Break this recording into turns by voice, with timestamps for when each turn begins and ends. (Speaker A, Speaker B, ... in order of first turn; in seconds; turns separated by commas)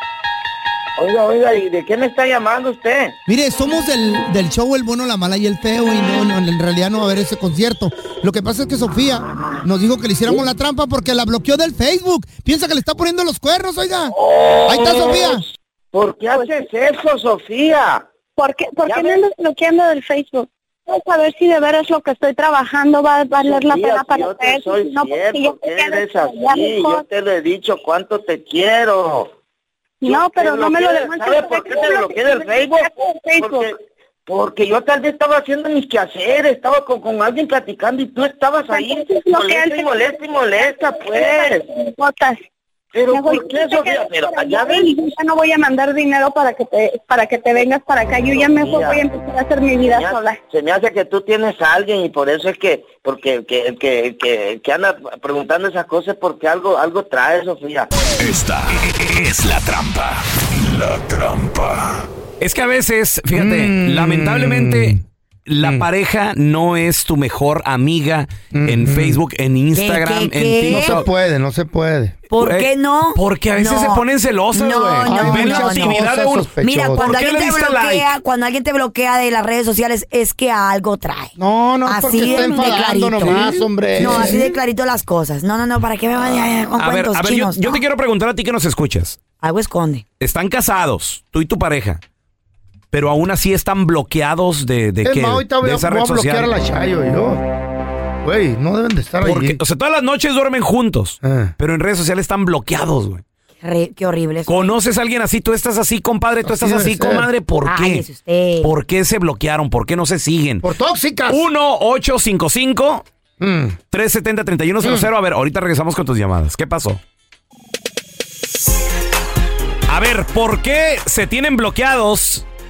Speaker A: 1.0-3.1, Speaker B: 3.2-14.1, Speaker A: 14.1-18.1, Speaker B: 14.7-15.4, Speaker C: 16.3-16.6, Speaker C: 18.4-27.0, Speaker A: 18.9-19.2, Speaker A: 23.4-29.3, Speaker C: 30.0-33.7, Speaker A: 30.0-33.7, Speaker A: 34.3-41.6, Speaker C: 38.7-42.4, Speaker A: 42.9-44.9, Speaker C: 43.1-50.4, Speaker A: 48.3-49.0, Speaker A: 49.8-57.9, Speaker D: 58.2-62.0, Speaker E: 62.4-71.0, Speaker B: 63.3-65.0, Speaker B: 68.5-69.2, Speaker F: 69.7-71.0, Speaker B: 70.7-72.2, Speaker F: 72.3-76.0, Speaker E: 72.4-78.1, Speaker B: 75.0-77.1, Speaker F: 76.6-81.3, Speaker B: 81.4-84.5, Speaker F: 81.8-87.8, Speaker E: 84.0-84.4, Speaker E: 86.8-89.2, Speaker F: 89.4-90.0, Speaker E: 90.2-92.0, Speaker E: 92.9-96.5, Speaker B: 95.0-97.4, Speaker B: 98.2-99.6, Speaker E: 99.2-103.2, Speaker B: 101.2-101.5, Speaker F: 103.6-104.7, Speaker E: 104.5-108.0, Speaker B: 106.4-107.3, Speaker F: 107.6-108.7, Speaker E: 108.6-110.7, Speaker B: 110.6-111.4, Speaker E: 111.3-113.0, Speaker B: 113.4-113.8, Speaker E: 113.9-117.0, Speaker B: 114.8-115.1, Speaker E: 119.9-122.4